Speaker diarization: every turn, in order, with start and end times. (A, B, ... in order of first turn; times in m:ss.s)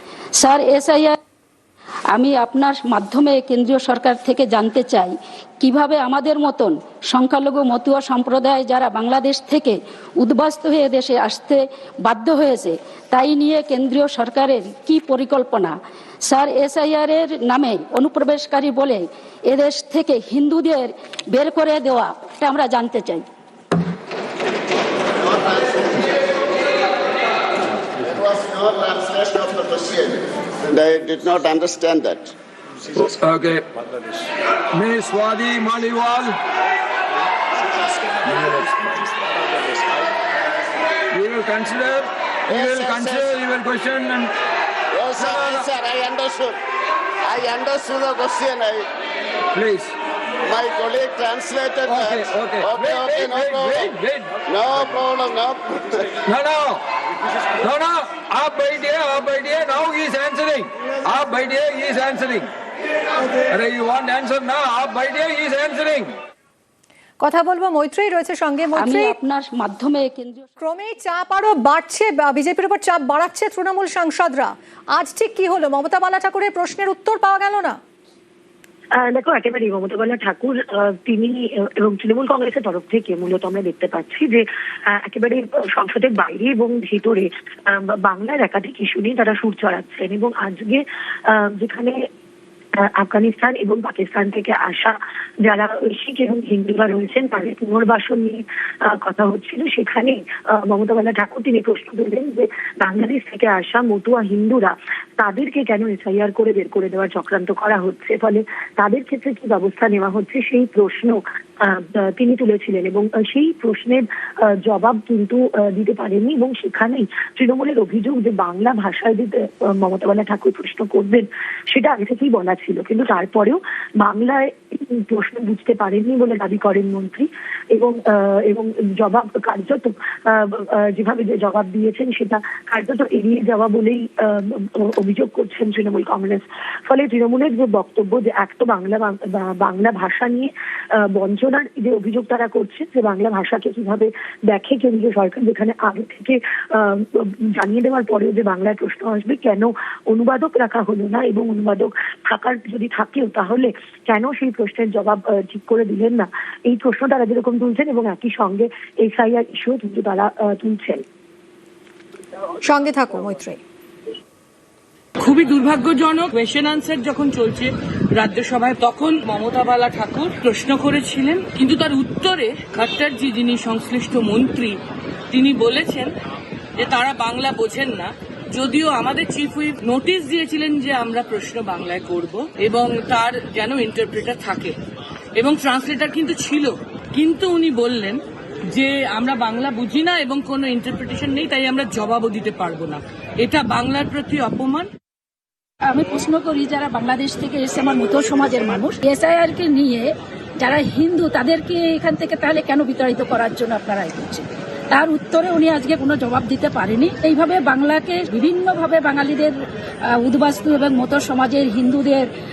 0:00.4-0:01.2 A
0:02.1-0:23.2 A
0:25.3-0:26.1 B
0:28.0-0:32.3 B
0:33.0-0:33.6 C
0:34.7-0:36.3 C
0:38.2-0:38.8 C
0:41.1-0:44.3 C
0:42.5-0:43.4 B
0:44.9-0:46.6 B
0:45.2-0:45.7 C
0:47.2-0:48.9 B
0:49.5-0:49.9 C
0:50.4-0:53.9 B
0:51.9-0:54.3 C
0:54.4-0:56.2 B
0:56.2-0:56.8 C
0:57.6-1:02.5 C
1:03.5-1:06.1 C
1:07.2-1:09.2 D
1:08.7-1:10.6 A
1:10.6-1:17.8 D
1:19.0-1:32.0 E
1:32.8-1:54.0 E
1:54.6-2:41.0 E
2:42.6-2:43.6 D
2:45.2-2:54.8 F
2:55.3-2:56.1 F
2:56.8-3:04.7 F
3:05.4-3:08.2 F
3:08.7-3:14.9 F
3:15.9-3:29.6 A
3:30.1-3:32.3 A